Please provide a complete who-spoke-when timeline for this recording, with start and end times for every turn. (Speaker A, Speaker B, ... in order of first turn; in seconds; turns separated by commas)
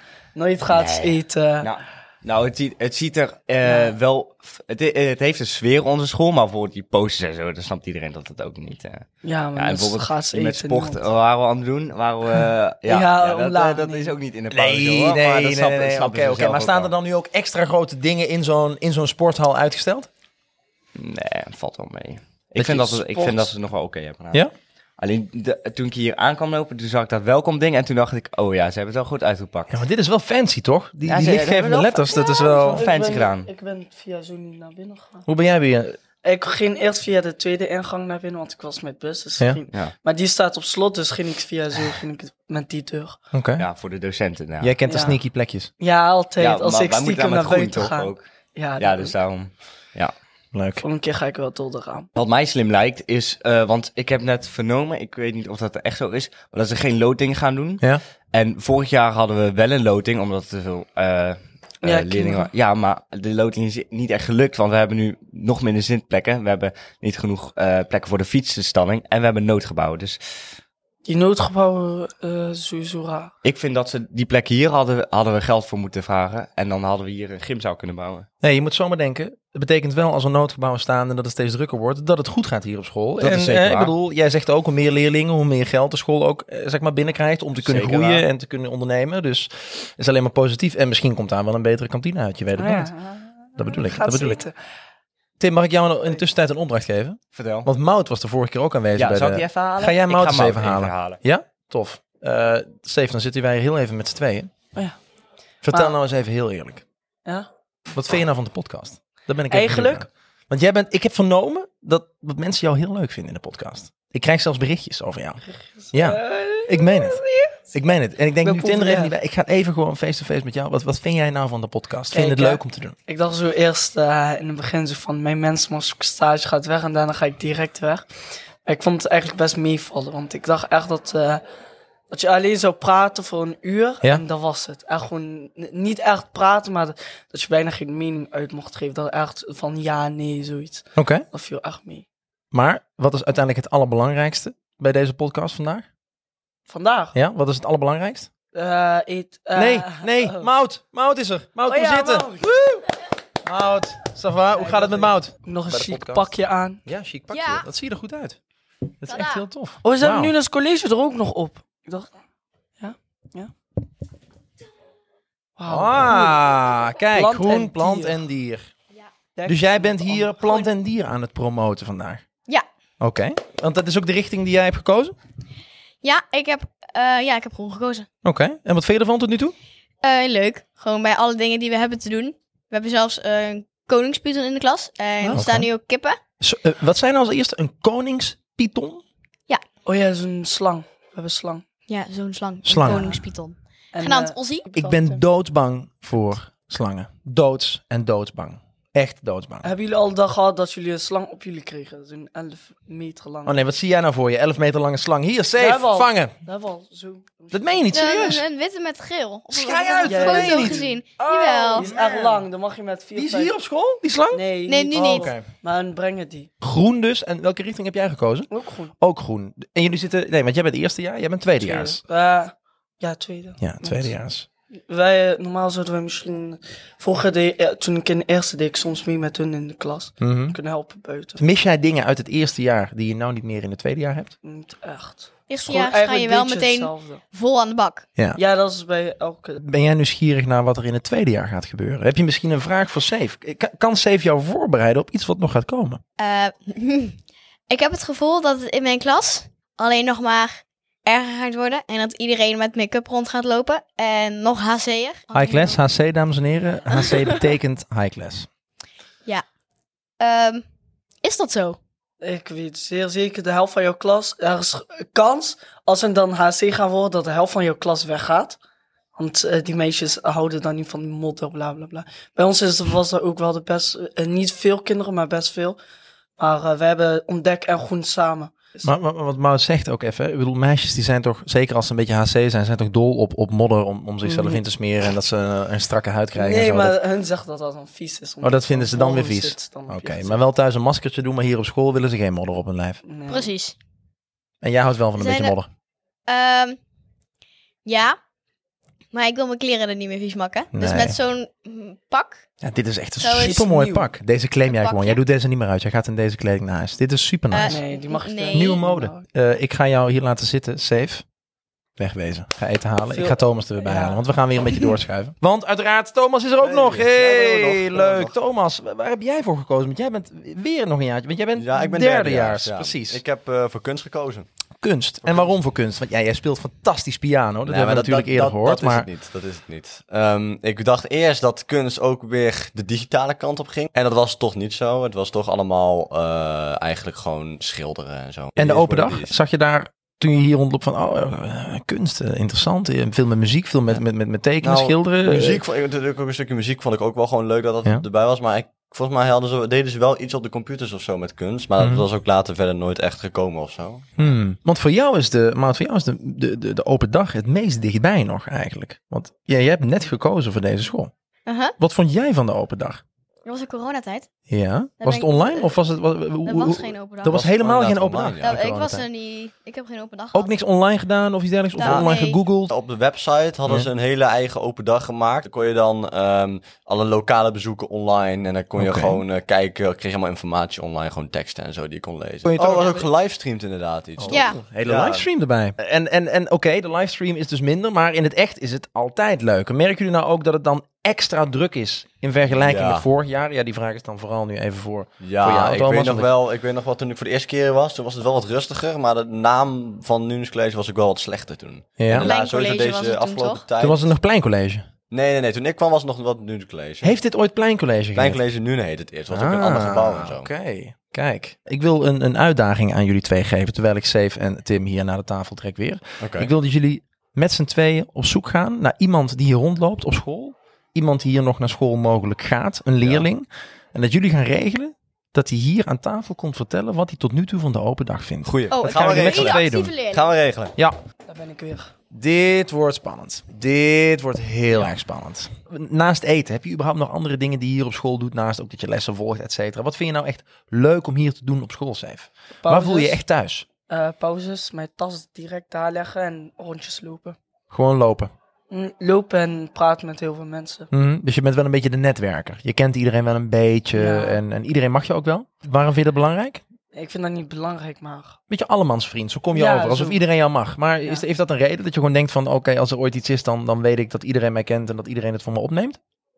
Speaker A: 0.3-1.7, Speaker B: 0.7-16.9, Speaker A: 3.6-3.9, Speaker A: 9.2-11.0, Speaker A: 12.8-14.2, Speaker C: 14.5-20.1, Speaker B: 20.9-24.4, Speaker C: 22.6-23.1, Speaker B: 25.0-29.7, Speaker C: 29.7-32.8, Speaker B: 31.0-32.2, Speaker A: 32.2-35.2, Speaker B: 32.7-33.5, Speaker C: 35.3-36.0, Speaker A: 36.2-43.2, Speaker C: 43.3-43.7, Speaker B: 43.6-44.8, Speaker C: 44.6-45.7, Speaker A: 44.9-45.2, Speaker A: 45.8-49.1, Speaker B: 46.4-48.2, Speaker B: 48.8-50.1, Speaker C: 50.5-50.8, Speaker A: 50.8-52.1, Speaker B: 52.1-70.2, Speaker A: 61.8-62.5, Speaker A: 71.0-73.3, Speaker B: 73.4-78.3, Speaker C: 78.4-92.9, Speaker B: 83.2-83.9, Speaker B: 87.6-88.2, Speaker A: 92.6-94.5, Speaker C: 93.6-94.4, Speaker C: 95.4-104.5, Speaker B: 97.3-97.7, Speaker B: 99.0-101.2, Speaker C: 105.6-106.8, Speaker A: 105.7-105.9, Speaker C: 107.9-122.9, Speaker A: 109.5-110.1, Speaker A: 115.7-117.5, Speaker A: 118.4-119.1, Speaker A: 122.1-128.1, Speaker A: 128.7-131.4, Speaker A: 132.1-142.0, Speaker C: 140.9-141.2, Speaker C: 142.5-145.8, Speaker A: 146.7-147.1, Speaker C: 147.1-148.3, Speaker A: 148.5-150.5, Speaker C: 149.5-152.4, Speaker A: 151.7-152.8, Speaker C: 153.4-156.3, Speaker A: 154.5-156.8, Speaker C: 156.8-158.4, Speaker D: 157.3-157.7, Speaker C: 159.0-160.3, Speaker D: 159.1-159.4, Speaker A: 159.8-162.2, Speaker A: 162.8-163.5, Speaker A: 165.6-166.4, Speaker C: 165.7-168.7, Speaker A: 167.1-168.2, Speaker A: 169.3-170.7, Speaker C: 169.5-172.2, Speaker C: 173.0-175.1, Speaker D: 176.0-178.1, Speaker C: 178.2-179.5, Speaker D: 180.0-186.2, Speaker C: 185.3-185.7, Speaker C: 186.4-189.0, Speaker A: 189.8-191.6, Speaker D: 191.9-194.7, Speaker C: 192.6-193.1, Speaker A: 192.8-193.2, Speaker A: 193.9-195.2, Speaker C: 194.7-199.7, Speaker A: 199.6-203.6, Speaker C: 203.4-206.3, Speaker A: 205.6-208.0, Speaker C: 207.5-208.4, Speaker D: 207.9-211.9, Speaker C: 209.5-212.4, Speaker A: 210.0-210.9, Speaker A: 211.7-213.5, Speaker C: 213.2-215.4, Speaker A: 214.3-216.5, Speaker D: 214.7-215.3, Speaker C: 216.6-222.0, Speaker A: 218.5-218.9, Speaker A: 221.6-224.1, Speaker C: 223.6-224.5, Speaker A: 224.9-231.4, Speaker C: 230.2-230.6, Speaker C: 231.4-234.3, Speaker A: 234.4-237.2, Speaker D: 235.5-238.1, Speaker A: 238.3-239.6, Speaker C: 239.6-246.0, Speaker D: 246.2-247.2, Speaker D: 247.7-255.8, Speaker C: 255.3-258.5, Speaker D: 260.2-260.6, Speaker D: 261.2-261.8, Speaker A: 262.2-268.6, Speaker A: 269.1-275.8, Speaker A: 276.4-278.9, Speaker C: 278.8-287.0, Speaker A: 284.2-284.6, Speaker A: 286.3-290.4, Speaker C: 288.4-293.0, Speaker A: 293.1-293.5, Speaker D: 293.3-293.7, Speaker C: 294.6-295.7, Speaker D: 295.1-295.5, Speaker D: 296.3-296.8, Speaker D: 297.8-298.1, Speaker D: 299.1-302.4, Speaker C: 300.7-301.2, Speaker C: 302.6-307.8, Speaker D: 303.2-303.6, Speaker A: 303.4-304.1, Speaker D: 304.6-305.2, Speaker D: 307.5-308.8, Speaker A: 307.6-309.2, Speaker C: 308.5-311.2, Speaker C: 312.0-323.2, Speaker A: 313.1-314.2, Speaker E: 316.6-318.4, Speaker E: 321.5-324.5, Speaker C: 324.8-329.1, Speaker E: 325.2-325.5, Speaker E: 327.6-339.4, Speaker C: 338.6-345.6, Speaker E: 344.6-354.3, Speaker C: 351.8-352.0, Speaker C: 354.2-361.1, Speaker D: 361.5-361.7, Speaker C: 361.8-363.0, Speaker D: 363.4-364.3, Speaker C: 364.5-369.1, Speaker D: 365.0-365.8, Speaker D: 366.4-367.4, Speaker E: 367.3-368.6, Speaker D: 368.4-370.5, Speaker C: 370.3-372.7, Speaker D: 371.8-372.4, Speaker E: 371.8-372.1, Speaker E: 372.7-385.3, Speaker C: 378.8-379.2, Speaker C: 382.4-383.1, Speaker C: 384.2-396.3, Speaker D: 384.3-384.6, Speaker E: 392.5-393.1, Speaker E: 395.2-404.1, Speaker C: 402.0-402.3, Speaker D: 402.1-403.6, Speaker C: 403.8-404.8, Speaker E: 405.1-407.2, Speaker C: 407.0-408.4, Speaker E: 408.1-410.5, Speaker C: 409.3-429.9, Speaker E: 416.2-416.5, Speaker E: 423.0-423.2, Speaker E: 428.4-430.7, Speaker D: 428.7-430.3, Speaker A: 431.3-431.9, Speaker C: 432.1-443.6, Speaker A: 442.6-443.2, Speaker A: 443.9-447.4, Speaker C: 447.7-448.3, Speaker A: 448.7-450.9, Speaker C: 450.9-456.6, Speaker A: 453.9-454.4, Speaker A: 456.9-458.4, Speaker C: 458.5-466.0, Speaker A: 459.5-460.2